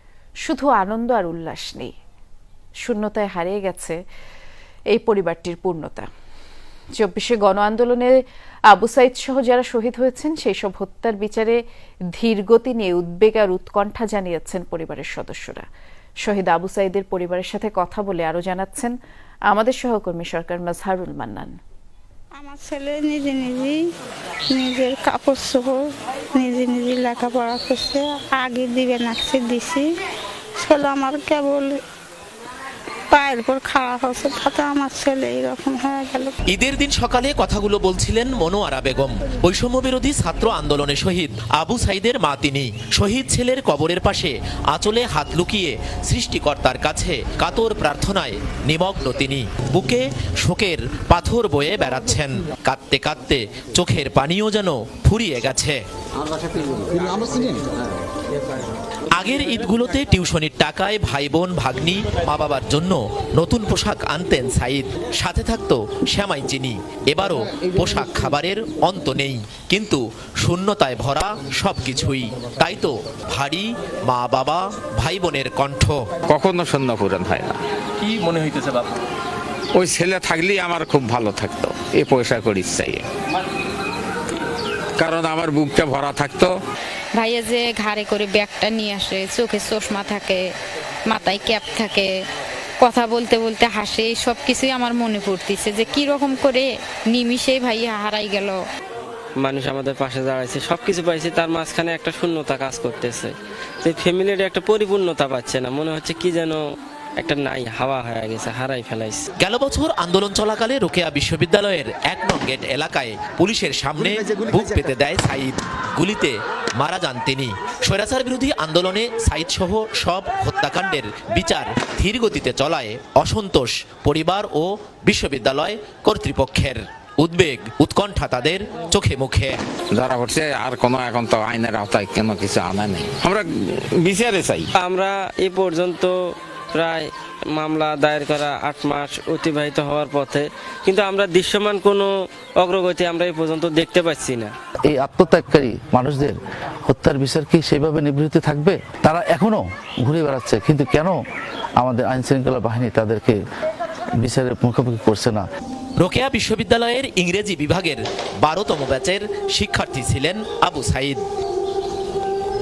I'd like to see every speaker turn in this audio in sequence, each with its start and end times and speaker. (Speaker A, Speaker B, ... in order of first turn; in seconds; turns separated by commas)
Speaker A: 0.5-1.9, Speaker A: 2.8-4.0, Speaker A: 4.9-6.1, Speaker A: 7.0-11.6, Speaker A: 12.1-15.7, Speaker A: 16.2-18.9, Speaker A: 19.5-21.5, Speaker B: 22.3-23.8, Speaker B: 24.5-29.8, Speaker B: 30.6-31.8, Speaker B: 33.1-36.3, Speaker C: 36.5-55.8, Speaker C: 59.1-76.0, Speaker D: 76.3-77.6, Speaker C: 78.0-78.9, Speaker D: 78.3-78.5, Speaker D: 79.7-83.0, Speaker D: 85.0-86.5, Speaker E: 87.1-90.5, Speaker E: 91.1-92.2, Speaker E: 92.8-98.6, Speaker F: 99.4-103.3, Speaker F: 103.8-106.6, Speaker F: 107.2-109.2, Speaker C: 109.4-129.6, Speaker D: 129.9-134.7, Speaker F: 134.8-136.1, Speaker F: 136.7-142.1, Speaker F: 142.6-144.5, Speaker G: 144.8-146.4, Speaker G: 146.9-151.1, Speaker G: 151.8-153.4, Speaker G: 154.2-155.4, Speaker C: 156.0-161.2